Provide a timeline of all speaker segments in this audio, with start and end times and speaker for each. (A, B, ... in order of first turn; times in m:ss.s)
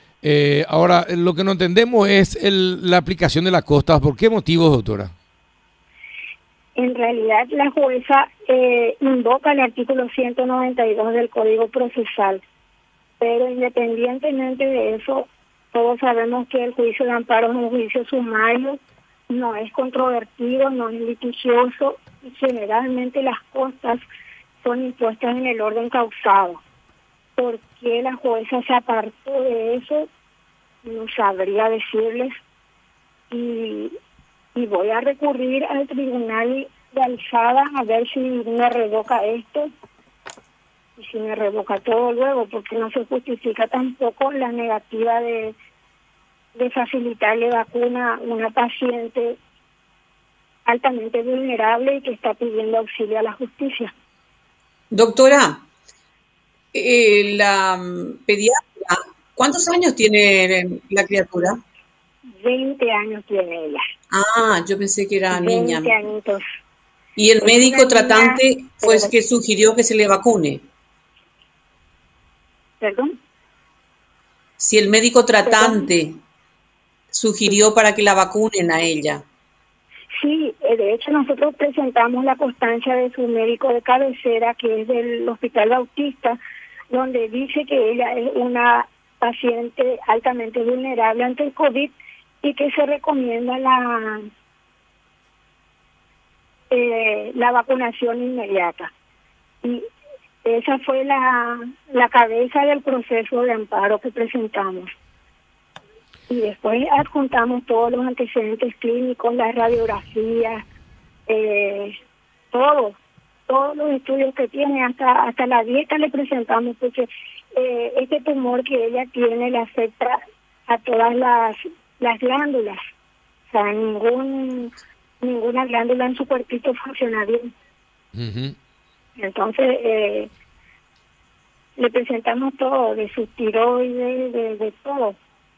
0:00.2-0:05.1 A
0:06.8-0:12.4 B
0:13.2-0:18.8 B
0:19.3-0:24.0 B
0:24.6-0:26.6 B
0:27.4-0:30.1 B
0:30.8-0:32.3 B
0:33.3-0:33.9 B
0:34.5-0:39.7 B
0:41.0-0:45.5 B
0:46.5-0:49.4 B
0:50.6-0:53.9 B
0:54.9-0:55.6 C
0:56.7-1:01.6 C
1:02.3-1:03.8 B
1:04.1-1:06.0 C
1:05.3-1:06.4 B
1:07.2-1:10.6 C
1:07.4-1:09.1 B
1:12.8-1:13.1 B
1:14.6-1:16.2 C
1:15.4-1:15.9 B
1:17.1-1:19.2 C
1:20.2-1:26.4 B
1:26.9-1:34.3 B
1:36.7-1:38.9 B
1:40.4-1:44.9 B
1:46.3-1:50.6 B
1:51.3-1:51.9 B
1:52.5-1:53.0 B
1:53.5-2:02.8 B
2:03.5-2:07.5 B
2:08.1-2:08.5 A
2:09.2-2:10.3 B
2:11.8-2:15.2 B